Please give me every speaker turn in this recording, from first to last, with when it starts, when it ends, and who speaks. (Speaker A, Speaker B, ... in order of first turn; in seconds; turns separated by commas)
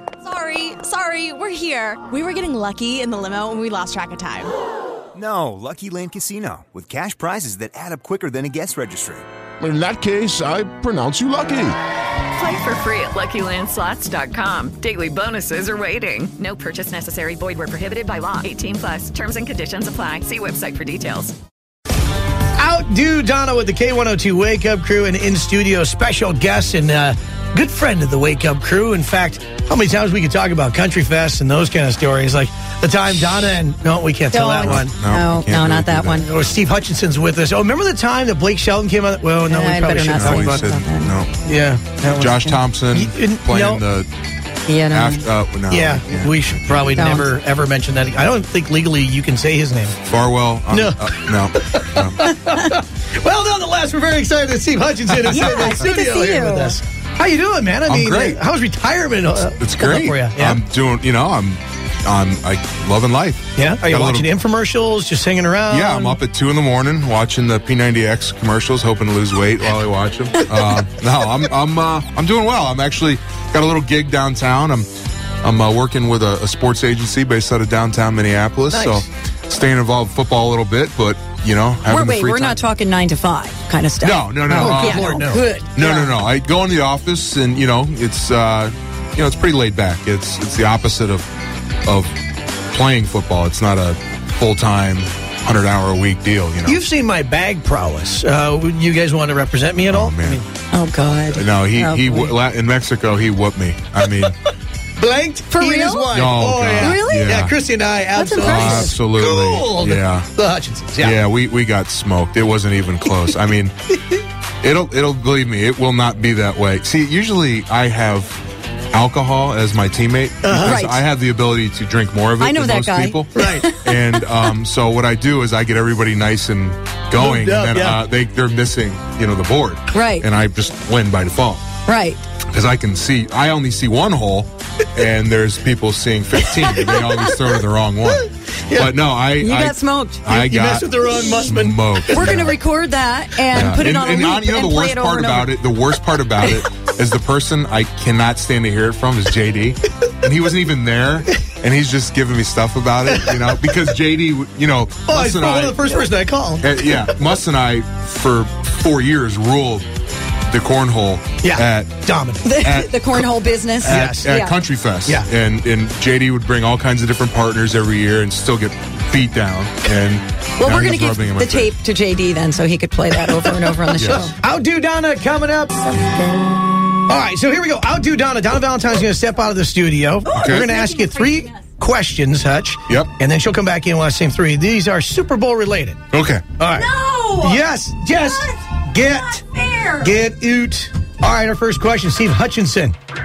Speaker A: 0.2-4.5, Speaker B: 5.1-9.2, Speaker C: 9.6-11.8, Speaker D: 12.3-21.3, Speaker E: 22.6-34.9, Speaker F: 34.3-36.3, Speaker G: 34.6-36.2, Speaker E: 36.2-40.7, Speaker F: 39.5-41.1, Speaker G: 40.1-41.3, Speaker E: 41.4-43.8, Speaker G: 42.1-44.1, Speaker F: 44.7-45.3, Speaker G: 44.9-47.1, Speaker E: 45.7-50.0, Speaker F: 46.9-47.3, Speaker G: 50.0-52.3, Speaker E: 50.7-60.6, Speaker F: 55.2-56.8, Speaker G: 57.9-58.4, Speaker G: 59.5-64.3, Speaker E: 63.5-66.2, Speaker G: 65.7-74.9, Speaker G: 75.4-82.6, Speaker E: 78.7-79.0, Speaker F: 81.9-86.0, Speaker G: 84.0-91.2, Speaker E: 84.4-86.1, Speaker G: 91.8-92.1, Speaker G: 92.7-96.8, Speaker E: 96.6-100.4, Speaker G: 99.9-100.4, Speaker F: 100.7-102.3, Speaker G: 101.3-104.4, Speaker E: 105.0-111.2, Speaker F: 105.5-106.0, Speaker G: 106.1-107.5, Speaker F: 106.8-107.4, Speaker F: 108.1-108.9, Speaker G: 108.4-110.3, Speaker G: 111.0-113.8, Speaker G: 114.6-118.4, Speaker G: 118.9-131.7, Speaker E: 120.4-120.8, Speaker F: 120.6-121.0, Speaker F: 122.4-123.9, Speaker E: 123.3-123.7, Speaker E: 127.1-128.0, Speaker F: 129.9-130.3, Speaker F: 131.8-132.2, Speaker G: 132.5-142.6, Speaker E: 136.4-137.3, Speaker E: 138.1-139.0, Speaker F: 139.4-140.2, Speaker E: 140.3-142.5, Speaker F: 142.1-145.6, Speaker G: 143.5-155.9, Speaker E: 153.1-153.4, Speaker E: 155.1-157.1, Speaker G: 156.6-159.9, Speaker G: 160.5-162.0, Speaker E: 161.4-162.5, Speaker F: 162.4-164.6, Speaker G: 162.6-171.8, Speaker E: 163.8-164.3, Speaker F: 170.6-174.3, Speaker G: 173.9-174.3, Speaker E: 174.0-175.8, Speaker F: 175.8-176.8, Speaker E: 177.1-186.0, Speaker F: 180.3-181.6, Speaker G: 180.3-180.7, Speaker G: 186.1-186.5, Speaker E: 186.6-186.9, Speaker F: 186.7-187.6, Speaker E: 187.4-189.4, Speaker F: 188.2-188.6, Speaker F: 189.3-190.2, Speaker E: 190.0-192.9